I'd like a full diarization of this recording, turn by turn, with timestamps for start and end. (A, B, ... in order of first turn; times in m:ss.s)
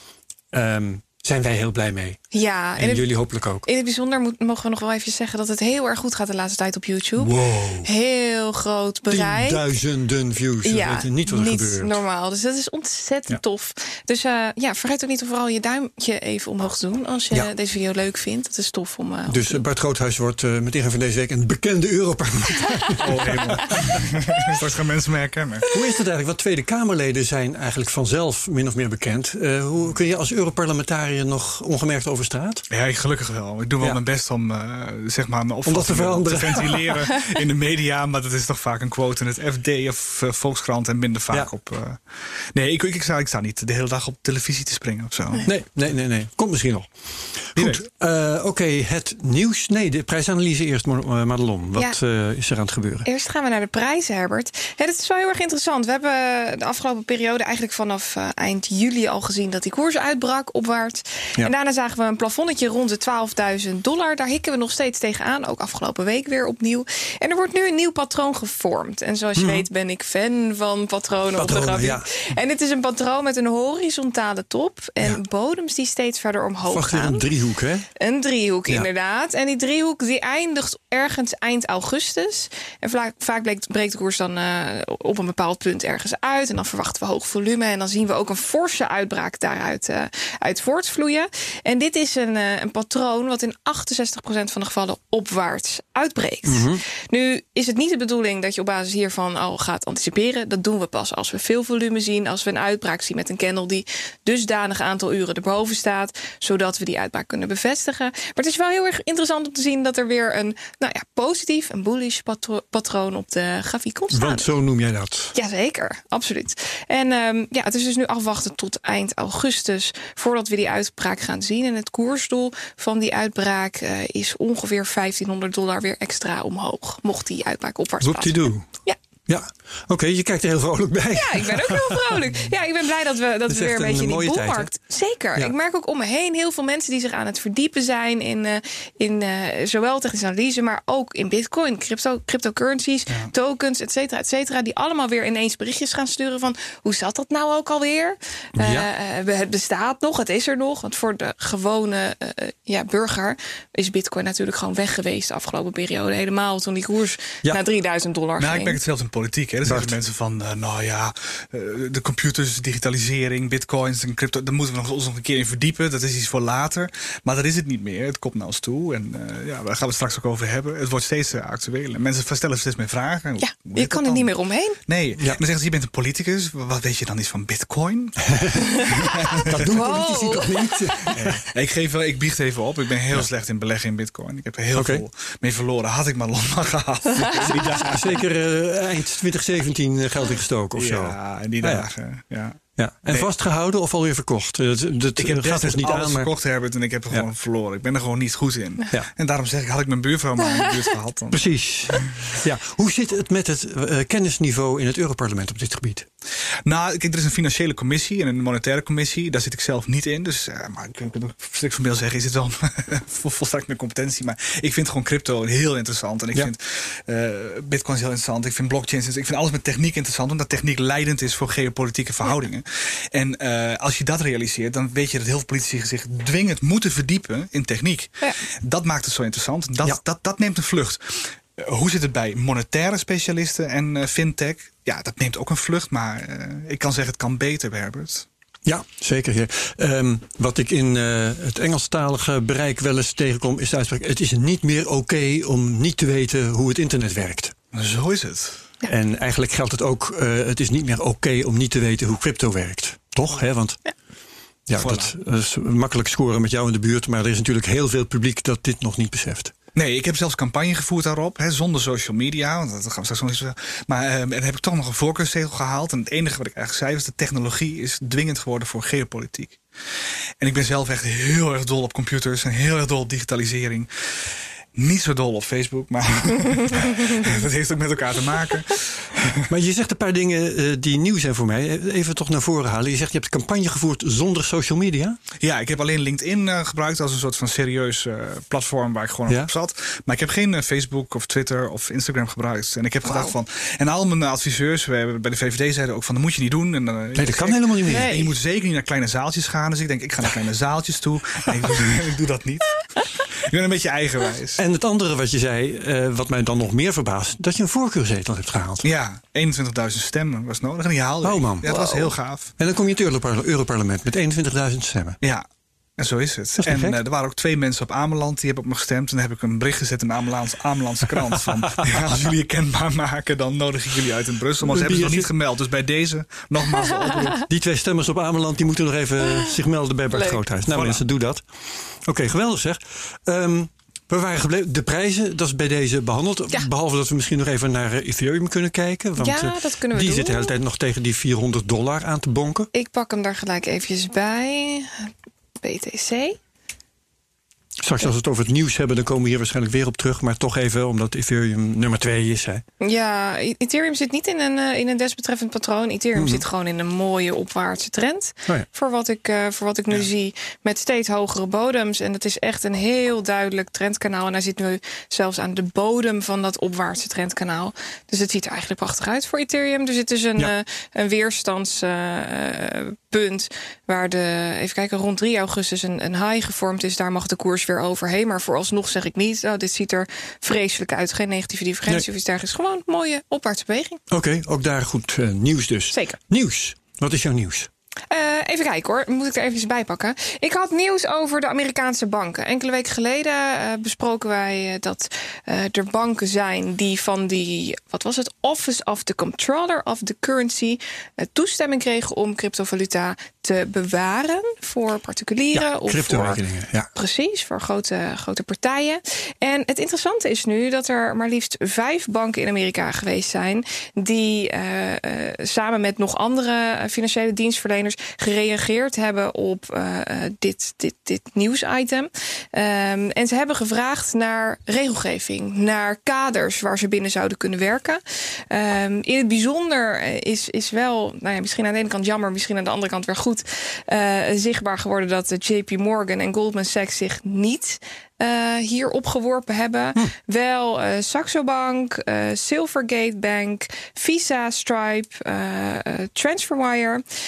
0:00.5-0:02.2 A
0:02.3-0:09.6 B
0:02.8-0:03.6 A
0:07.2-0:07.8 C
0:09.1-0:11.9 A
0:10.6-0:19.6 B
0:19.3-0:24.0 A
0:23.0-0:25.7 C
0:25.7-0:32.6 A
0:32.7-0:45.5 C
0:35.6-0:37.0 A
0:45.4-0:53.1 A
0:47.6-0:47.8 C
0:53.0-1:17.2 B
1:09.4-1:09.6 A
1:11.4-1:12.0 A
1:16.7-1:17.9 A
1:18.0-1:54.5 B
1:36.4-1:36.8 A
1:54.1-1:55.3 A
1:55.3-2:09.0 B
2:08.0-2:08.6 A
2:09.3-2:12.2 A
2:11.1-2:38.8 B
2:13.5-2:14.7 A
2:28.6-2:28.9 A
2:38.4-2:54.3 C
2:39.6-2:39.9 A
2:53.4-2:54.8 B
2:54.9-2:59.8 C
2:58.2-2:58.8 A
2:58.6-3:01.1 B
2:59.4-3:01.4 A
3:01.1-3:08.2 C
3:04.7-3:05.0 A
3:07.2-3:07.6 B
3:07.5-3:11.9 A
3:10.8-3:13.3 C
3:12.8-3:16.3 A
3:15.2-3:22.1 C
3:21.3-3:26.0 A
3:26.6-3:58.3 C
3:58.6-4:07.5 A
4:07.7-4:08.7 C
4:08.8-4:13.8 A
4:14.7-4:19.5 A
4:14.8-4:15.1 C
4:19.7-4:29.6 C
4:30.4-4:39.4 C
4:39.5-4:45.2 A
4:45.4-5:04.6 C
4:57.1-4:58.1 A
4:57.8-4:58.3 B
5:04.6-5:08.9 A
5:08.8-5:12.5 C
5:11.2-5:11.8 A
5:11.6-5:12.1 B
5:12.6-5:15.2 A
5:15.2-5:15.4 C
5:16.0-5:27.4 C
5:16.6-5:17.0 A
5:21.3-5:21.9 A
5:24.6-5:25.3 A
5:27.1-5:27.4 B
5:27.5-5:31.4 A
5:30.1-5:30.4 B
5:30.7-5:31.0 C
5:32.0-5:42.7 A
5:39.2-5:40.5 B
5:42.7-5:45.1 B
5:45.6-5:46.4 B
5:47.8-5:52.6 A
5:52.8-6:24.0 B
5:56.2-5:56.4 A
6:24.1-6:27.7 A
6:28.1-6:46.4 B
6:45.5-6:46.9 A
6:46.9-7:27.0 B